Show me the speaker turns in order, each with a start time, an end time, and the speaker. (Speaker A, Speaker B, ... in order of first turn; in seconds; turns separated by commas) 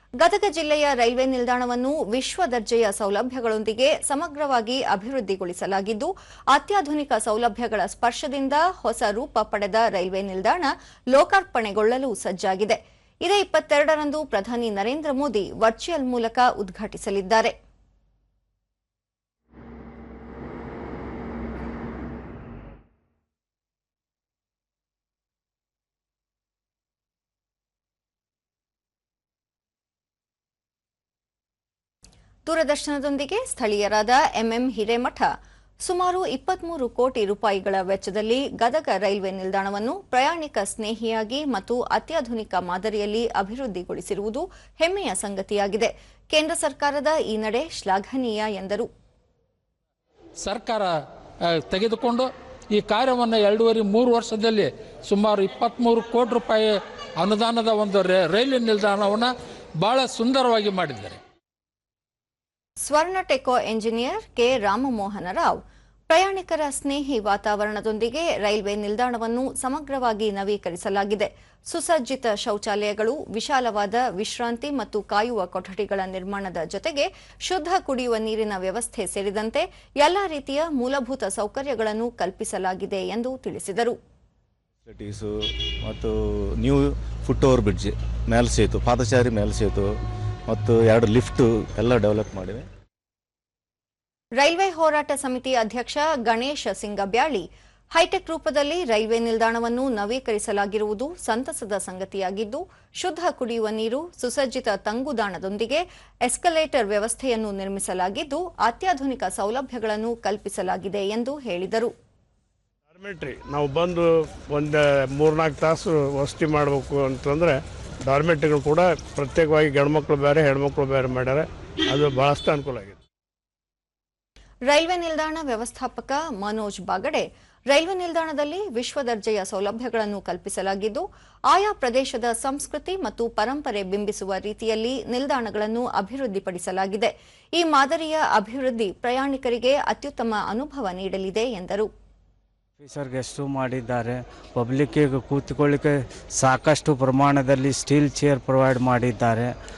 Speaker A: 0.2-17.5, Speaker A: 32.5-35.3, Speaker A: 35.8-48.9, Speaker B: 50.4-50.9, Speaker B: 51.6-61.2, Speaker A: 62.8-84.0, Speaker C: 84.9-85.3, Speaker C: 85.8-89.9, Speaker C: 90.5-92.6, Speaker A: 94.4-111.9, Speaker D: 112.9-123.0, Speaker A: 124.7-141.9, Speaker E: 142.8-149.5